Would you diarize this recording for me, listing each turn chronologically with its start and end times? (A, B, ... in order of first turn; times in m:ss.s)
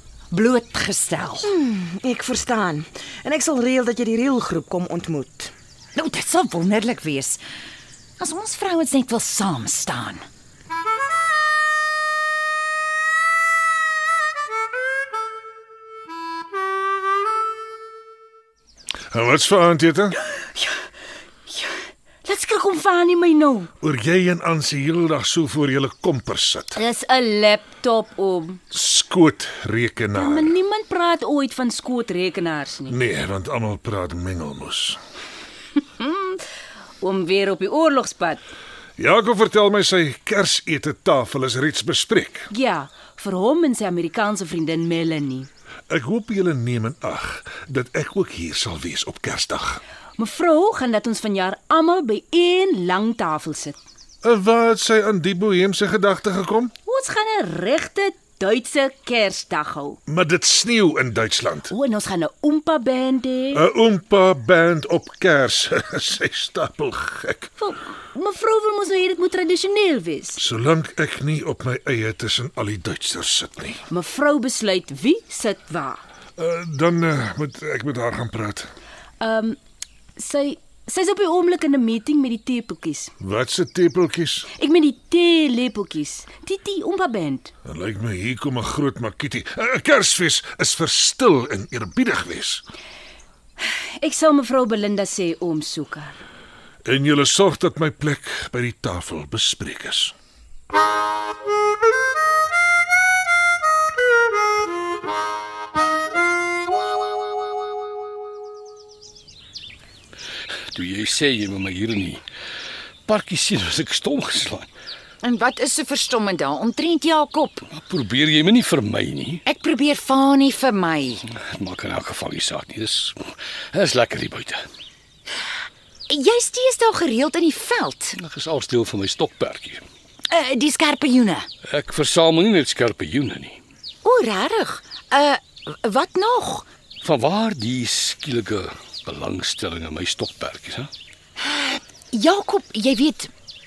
0:00.3-0:01.5 A
0:01.4-0:05.5 B
0:05.9-0:07.4 A
0:08.2-0:10.2 A
0:19.1-0:20.2 C
0:21.5-0:23.7 D
0:23.8-0:26.8 C
0:26.8-0:28.6 D
0:28.7-0:30.5 C
0:30.1-0:32.9 D
0:32.9-0:35.0 C
0:36.0-0:36.4 D
0:37.0-0:38.4 D
0:39.0-0:42.5 C
0:42.5-0:45.5 D
0:45.9-0:49.8 C
0:50.2-0:53.8 D
0:54.2-0:56.7 C
0:56.8-1:00.0 D
1:00.1-1:01.7 C
1:01.7-1:03.6 D
1:03.5-1:07.5 C
1:07.6-1:10.4 D
1:10.4-1:13.8 C
1:13.9-1:16.0 D
1:16.4-1:18.7 C
1:19.2-1:19.6 D
1:20.2-1:23.1 D
1:23.2-1:24.5 C
1:24.6-1:27.5 D
1:27.6-1:32.6 C
1:33.6-1:36.2 D
1:36.8-1:40.1 C
1:50.7-1:52.2 E
1:53.0-1:54.7 E
1:55.2-1:57.6 A
1:57.7-1:59.4 E
1:59.4-2:01.2 A
2:01.3-2:03.2 E
2:03.7-2:04.6 E
2:06.1-2:08.2 A
2:08.2-2:09.8 E
2:10.3-2:11.5 A
2:11.6-2:13.6 E
2:14.0-2:16.6 A
2:17.0-2:20.9 E
2:21.4-2:23.3 A